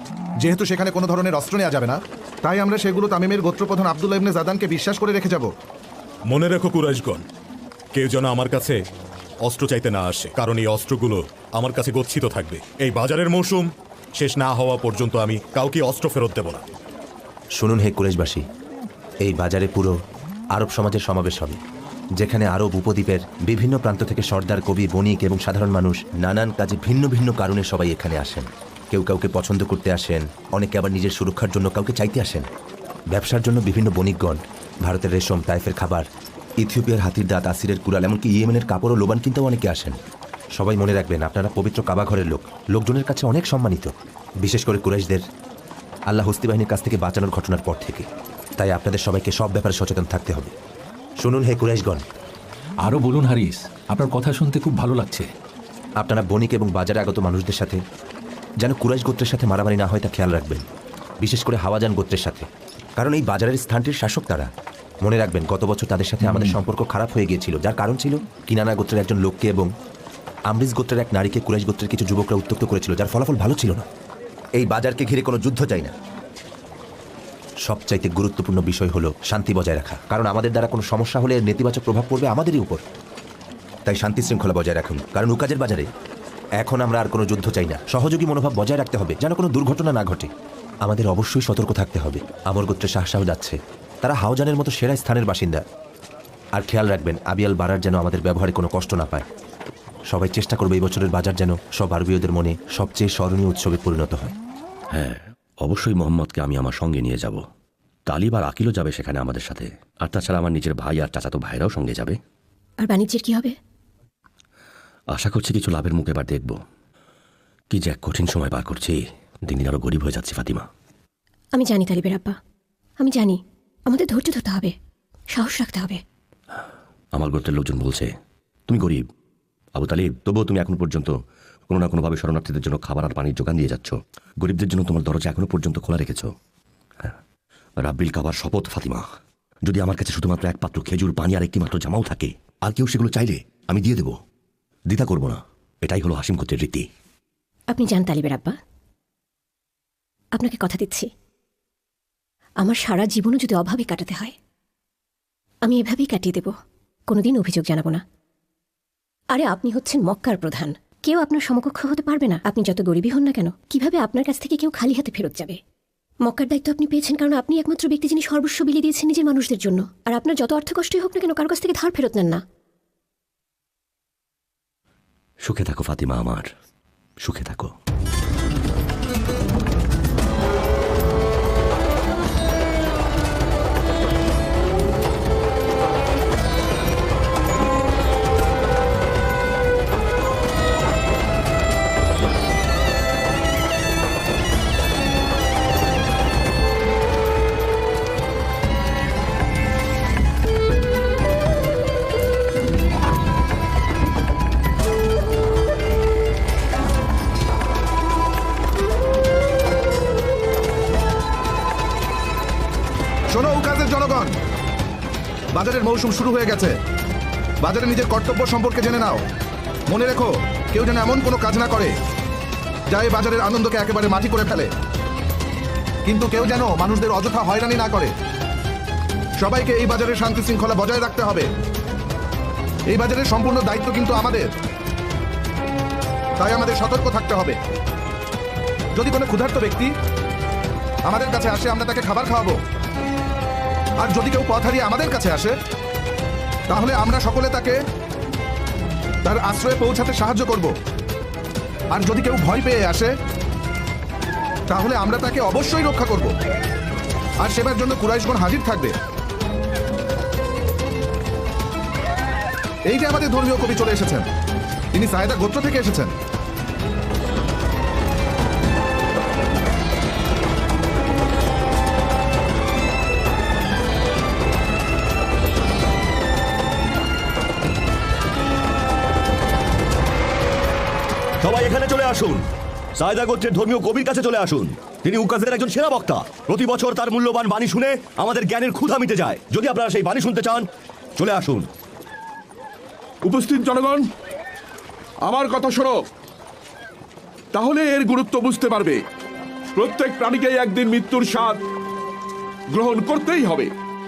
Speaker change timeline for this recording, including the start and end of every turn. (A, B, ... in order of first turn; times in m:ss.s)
0:00.4-0:05.5 A
0:06.3-0:07.2 B
0:07.9-0:08.8 B
0:09.4-0:16.6 B
0:17.6-0:18.4 C
0:19.2-0:20.0 C
0:20.5-0:21.6 C
0:22.2-0:32.5 C
0:33.1-0:36.0 C
0:36.6-0:40.0 C
0:40.6-0:43.9 C
0:44.4-0:45.2 C
0:46.1-0:48.0 C
0:48.6-0:50.5 C
0:51.2-0:52.0 C
0:52.8-0:55.3 D
0:56.0-0:57.8 C
0:58.6-1:00.6 C
1:01.2-1:02.5 C
1:03.0-1:04.5 C
1:05.0-1:09.7 C
1:10.5-1:13.8 C
1:14.6-1:15.9 C
1:17.6-1:22.8 C
1:23.9-1:25.9 C
1:26.6-1:30.3 C
1:30.8-1:35.6 C
1:36.6-1:39.2 C
1:40.1-1:44.3 C
1:44.9-1:47.4 E
1:48.1-1:52.2 E
1:52.8-1:53.6 F
1:55.1-1:56.6 E
1:57.7-2:00.7 E
2:01.5-2:02.4 F
2:03.0-2:04.7 F
2:05.3-2:06.0 F
2:07.1-2:08.1 E
2:08.7-2:09.0 E
2:09.7-2:11.2 E
2:11.7-2:16.3 E
2:17.8-2:19.0 E
2:19.6-2:24.2 E
2:24.9-2:26.9 E
2:27.7-2:28.6 F
2:30.3-2:31.1 F
2:32.6-2:34.3 F
2:35.6-2:36.5 F
2:37.1-2:38.0 F
2:39.3-2:45.6 F
2:46.2-2:52.4 F
2:55.4-2:56.5 E
2:57.2-2:57.7 E
3:33.3-3:34.3 A
3:35.5-3:36.7 A
3:37.6-3:39.2 A
3:39.9-3:41.9 A
3:42.9-3:44.7 A
3:46.0-3:48.1 A
3:49.4-3:51.5 A
3:52.9-3:54.5 A
3:56.4-3:57.6 A
3:58.9-3:59.9 A
4:01.0-4:02.6 A
4:04.0-4:05.5 A
4:06.7-4:07.8 A
4:09.2-4:10.7 A
4:11.9-4:13.1 A
4:14.7-4:16.3 A
4:17.4-4:18.9 A
4:22.9-4:24.2 A
4:24.9-4:26.1 A
4:41.4-4:42.4 G
4:43.0-4:51.7 G
4:53.2-4:54.1 H
4:55.2-4:56.1 H
4:57.5-4:59.0 H
4:59.7-5:01.6 H
5:02.7-5:03.7 H